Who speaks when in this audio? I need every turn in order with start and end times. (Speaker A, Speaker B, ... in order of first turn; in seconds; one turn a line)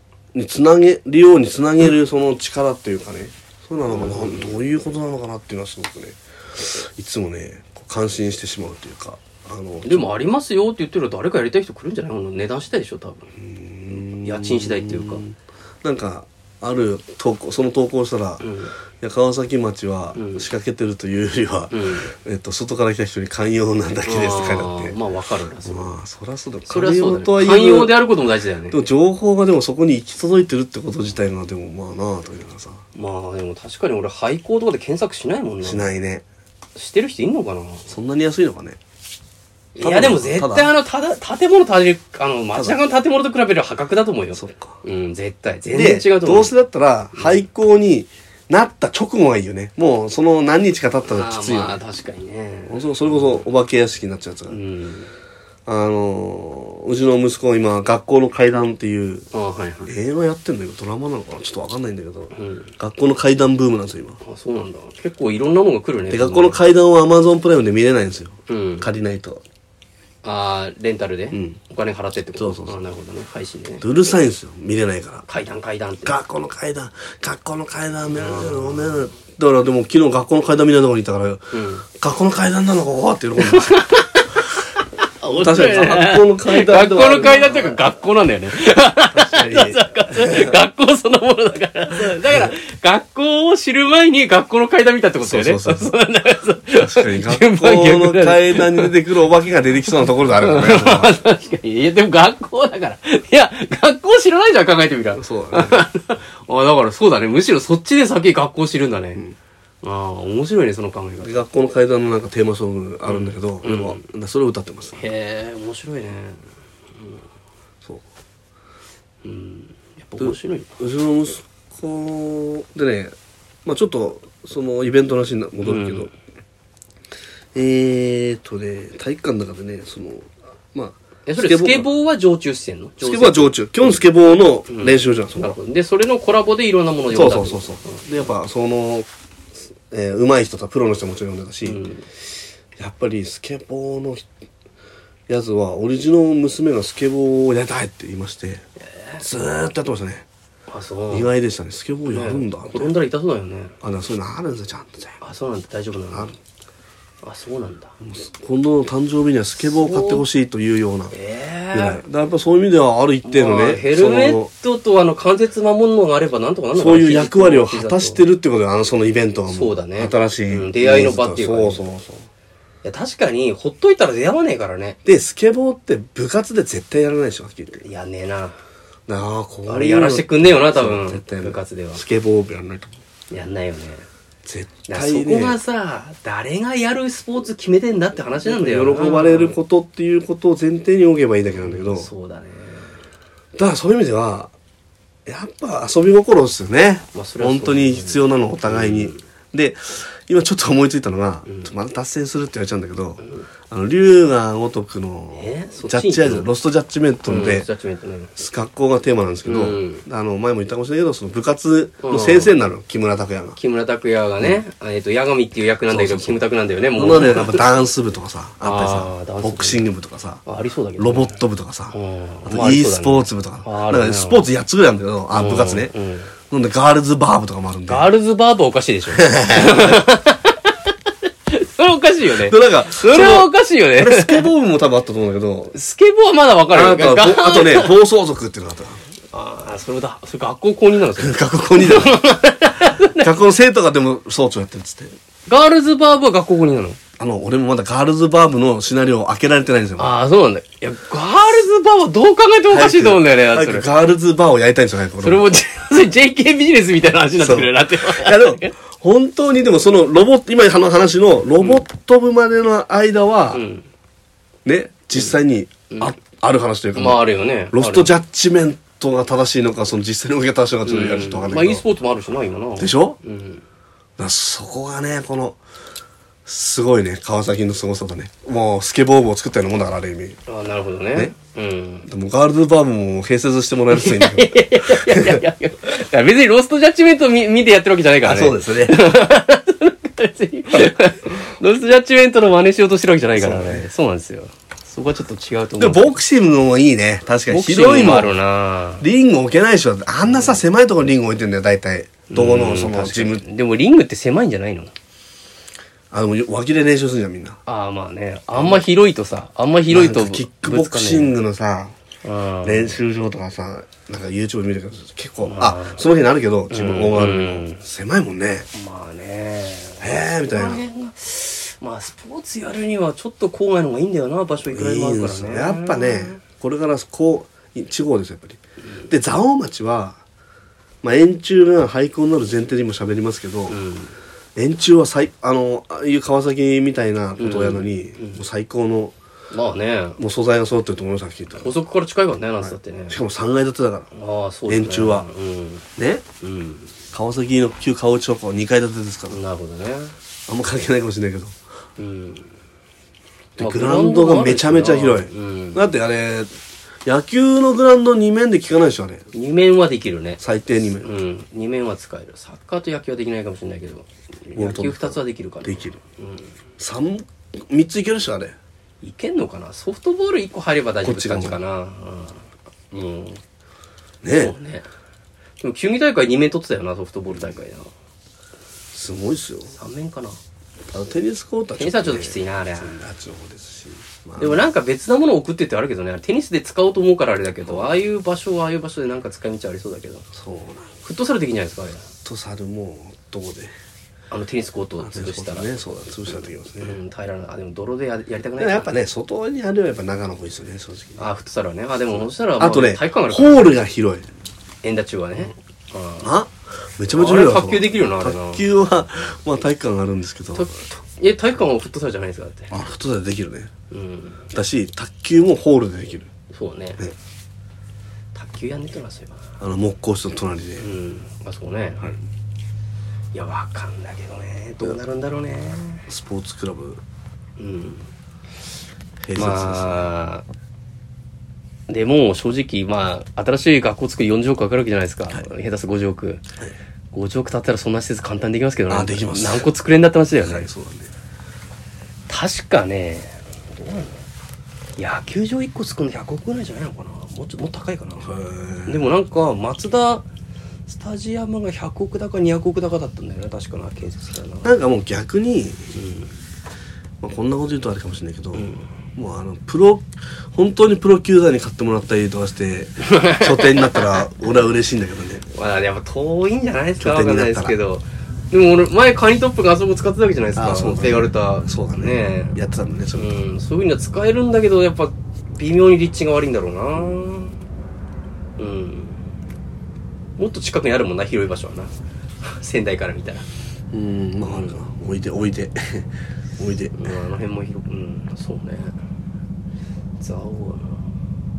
Speaker A: 0.3-10.1
Speaker B: 3.9-4.6
Speaker B: 9.8-13.3
Speaker A: 13.4-18.4
Speaker B: 13.9-15.2
Speaker B: 18.4-18.7
Speaker A: 19.0-25.0
Speaker B: 20.1-20.5
Speaker B: 21.7-22.1
Speaker B: 24.1-25.9
Speaker A: 25.6-28.0
Speaker B: 26.7-28.8
Speaker A: 28.7-32.8
Speaker B: 33.0-35.9
Speaker A: 35.6-36.2
Speaker B: 36.8-37.9
Speaker A: 37.9-38.8
Speaker B: 39.8-46.5
Speaker A: 39.8-40.7
Speaker A: 44.4-44.8
Speaker A: 45.7-51.8
Speaker B: 47.1-47.4
Speaker B: 51.1-53.4
Speaker A: 52.7-54.6
Speaker B: 54.5-55.1
Speaker A: 55.7-59.3
Speaker B: 59.3-59.9
Speaker A: 59.8-64.2
Speaker B: 62.3-62.7
Speaker B: 64.2-66.6
Speaker A: 66.1-69.4
Speaker B: 68.5-68.9
Speaker B: 70.2-73.8
Speaker A: 71.3-71.6
Speaker A: 72.3-72.8
Speaker A: 73.8-75.3
Speaker B: 75.3-76.2
Speaker A: 76.0-83.8
Speaker B: 78.1-79.1
Speaker B: 81.5-81.8
Speaker B: 83.4-98.9
Speaker A: 85.3-87.8
Speaker A: 89.1-90.6
Speaker A: 92.0-92.5
Speaker A: 95.2-95.9
Speaker A: 96.7-101.2
Speaker B: 100.2-109.2
Speaker A: 105.2-105.9
Speaker B: 109.8-111.4
Speaker A: 111.2-115.0
Speaker B: 113.1-114.0
Speaker B: 115.0-116.4
Speaker B: 117.0-117.2
Speaker B: 119.2-120.8
Speaker A: 120.2-126.1
Speaker B: 125.6-126.1
Speaker A: 127.5-131.9
Speaker B: 131.3-134.0
Speaker A: 133.0-135.6
Speaker B: 134.7-138.1
Speaker A: 137.1-139.1
Speaker A: 139.7-141.8
Speaker B: 141.7-142.1
Speaker A: 142.8-144.3
Speaker A: 145.3-148.6
Speaker B: 149.0-149.2
Speaker A: 149.2-150.2
Speaker B: 150.7-151.3
Speaker A: 151.1-152.9
Speaker B: 152.1-153.7
Speaker A: 153.8-155.2
Speaker B: 155.2-156.3
Speaker B: 157.2-158.0
Speaker A: 158.0-161.2
Speaker B: 159.7-160.2
Speaker B: 161.1-162.0
Speaker A: 161.7-164.5
Speaker B: 163.2-168.2
Speaker A: 166.8-172.3
Speaker B: 169.5-171.8
Speaker B: 172.8-175.0
Speaker A: 175.1-177.8
Speaker B: 177.8-178.6
Speaker A: 179.1-182.9
Speaker B: 179.7-182.0
Speaker B: 183.3-184.1
Speaker A: 184.4-185.6
Speaker B: 184.9-189.6
Speaker A: 188.4-192.1
Speaker B: 191.6-192.9
Speaker A: 193.6-194.5
Speaker A: 195.3-207.7
Speaker B: 197.1-199.2
Speaker B: 203.2-203.5
Speaker B: 205.3-206.5
Speaker B: 207.2-208.3
Speaker A: 208.4-213.6
Speaker B: 209.4-210.1
Speaker B: 212.0-212.5
Speaker B: 213.6-217.6
Speaker A: 215.9-216.4
Speaker A: 216.9-220.4
Speaker B: 218.6-219.8
Speaker B: 220.4-221.4
Speaker A: 221.0-225.9
Speaker B: 221.9-224.5
Speaker B: 225.3-226.3
Speaker A: 226.5-228.1
Speaker B: 227.9-230.9
Speaker A: 229.1-230.1
Speaker B: 231.5-234.5
Speaker A: 232.4-235.7
Speaker B: 235.7-237.9
Speaker A: 236.7-239.0
Speaker B: 239.3-243.3
Speaker A: 241.2-242.2
Speaker A: 243.0-245.1
Speaker B: 245.5-247.0
Speaker A: 247.2-250.1
Speaker B: 250.0-253.9
Speaker A: 252.7-255.5
Speaker B: 255.2-258.7
Speaker A: 257.4-263.6
Speaker B: 263.5-263.9
Speaker A: 264.6-271.8
Speaker B: 267.0-268.1
Speaker B: 270.9-273.6
Speaker A: 272.8-273.2
Speaker A: 274.2-275.6
Speaker A: 276.5-280.4
Speaker B: 280.5-282.1
Speaker A: 282.1-285.4
Speaker B: 283.9-296.2
Speaker A: 288.2-289.0
Speaker A: 293.4-293.9
Speaker A: 295.8-298.4
Speaker B: 297.5-299.1
Speaker A: 299.0-303.4
Speaker B: 300.2-300.6
Speaker B: 302.3-304.9
Speaker A: 306.1-307.6
Speaker B: 307.7-311.4
Speaker A: 308.6-308.8
Speaker A: 309.9-311.9
Speaker B: 312.2-313.0
Speaker A: 312.6-318.7
Speaker B: 315.4-316.0
Speaker B: 316.7-317.8
Speaker B: 318.7-326.4
Speaker A: 320.0-320.9
Speaker A: 324.7-330.2
Speaker B: 328.8-329.1
Speaker A: 331.0-333.8
Speaker B: 333.7-334.1
Speaker A: 334.6-339.1
Speaker B: 337.4-338.4
Speaker B: 339.5-340.2
Speaker A: 340.2-341.7
Speaker B: 341.5-343.2
Speaker A: 342.6-344.1
Speaker B: 344.1-345.9
Speaker A: 344.7-345.3
Speaker A: 346.0-346.2
Speaker B: 346.4-346.9
Speaker A: 347.1-349.4
Speaker B: 349.3-350.1
Speaker A: 350.5-351.6
Speaker B: 352.0-352.5
Speaker A: 353.6-356.5
Speaker B: 353.6-355.9
Speaker A: 357.1-359.2
Speaker B: 359.3-360.4
Speaker A: 360.4-361.1
Speaker B: 361.0-366.5
Speaker A: 364.5-366.0
Speaker A: 366.8-368.6
Speaker B: 369.0-373.4
Speaker A: 371.0-371.6
Speaker A: 374.2-374.6
Speaker B: 374.3-374.9
Speaker B: 375.6-377.9
Speaker A: 378.9-379.8
Speaker B: 379.7-380.4
Speaker A: 380.9-384.7
Speaker B: 381.8-383.0
Speaker B: 384.4-390.3
Speaker A: 390.3-390.9
Speaker B: 391.0-392.1
Speaker A: 392.2-393.7
Speaker B: 394.3-395.8
Speaker A: 395.0-397.0
Speaker B: 396.8-398.9
Speaker A: 398.6-401.3
Speaker B: 401.2-403.8
Speaker A: 402.6-404.3
Speaker B: 404.8-406.3
Speaker A: 406.2-410.7
Speaker B: 407.1-408.6
Speaker B: 410.5-412.7
Speaker A: 412.7-413.7
Speaker B: 413.9-414.4
Speaker A: 414.5-416.3
Speaker B: 416.5-417.1
Speaker B: 418.4-419.4
Speaker A: 419.6-420.9
Speaker B: 420.8-422.1
Speaker B: 423.3-426.1
Speaker A: 426.1-427.0
Speaker B: 427.6-428.1
Speaker A: 429.2-430.1
Speaker B: 429.4-430.4
Speaker B: 431.9-436.4
Speaker B: 437.1-440.7
Speaker A: 438.9-439.7
Speaker A: 440.4-441.1
Speaker B: 442.3-444.2
Speaker B: 445.0-448.4
Speaker A: 448.2-449.0
Speaker B: 448.9-450.2
Speaker B: 450.9-454.7
Speaker A: 454.6-455.9
Speaker B: 455.9-456.3
Speaker A: 457.2-465.4
Speaker B: 458.5-458.9
Speaker B: 463.0-464.1
Speaker B: 465.5-472.6
Speaker A: 467.0-467.8
Speaker A: 470.6-473.3
Speaker B: 473.2-477.6
Speaker B: 478.6-479.2
Speaker B: 480.4-483.5
Speaker A: 483.9-487.2
Speaker B: 484.5-484.8
Speaker B: 486.9-488.9
Speaker B: 490.2-491.1